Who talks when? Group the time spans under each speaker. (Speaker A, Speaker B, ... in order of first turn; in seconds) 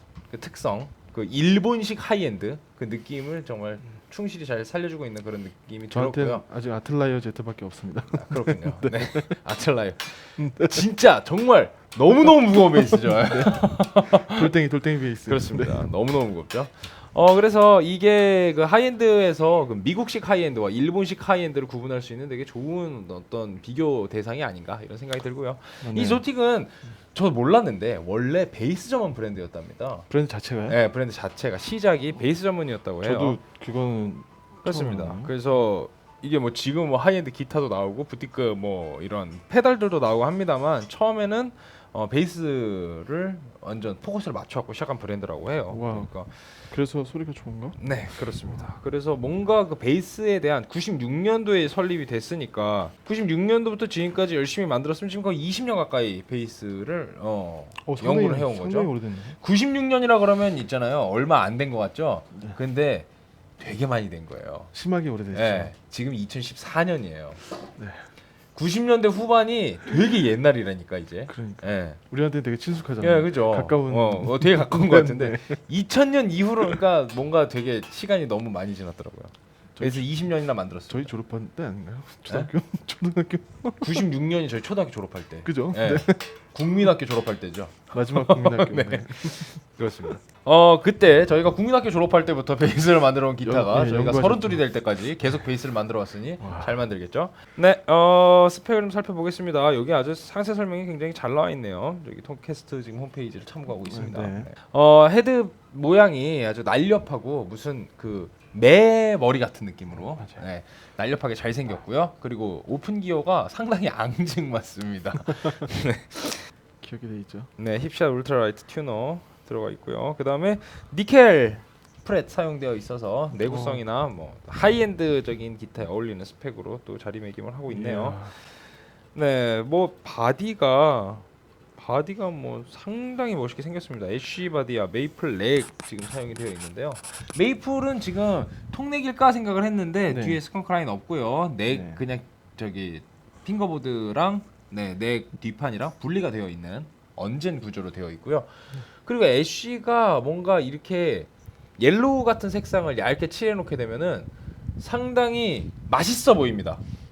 Speaker A: 0.3-6.4, 8.1-14.5, 15.3-30.1, 30.7-33.4, 34.6-46.5, 47.8-63.1, 63.6-64.7, 65.3-67.4, 68.5-72.0, 73.0-81.1, 83.8-116.5, 117.6-128.5, 129.1-131.2, 131.8-148.5, 149.0-156.8
Speaker B: 5.9-9.4, 10.4-10.9, 12.5-15.9, 25.8-26.2, 30.1-30.8, 33.0-35.3, 45.7-46.1, 46.7-47.8, 57.8-59.4, 64.7-65.7, 67.8-68.0, 71.3-75.6, 79.8-80.1, 80.9-84.0, 85.5-86.3, 87.9-89.6, 93.4-94.6, 96.4-96.8, 103.8-104.5, 110.0-110.4, 116.8-117.5, 123.3-123.8, 127.7-128.3, 140.1-140.4, 141.7-142.0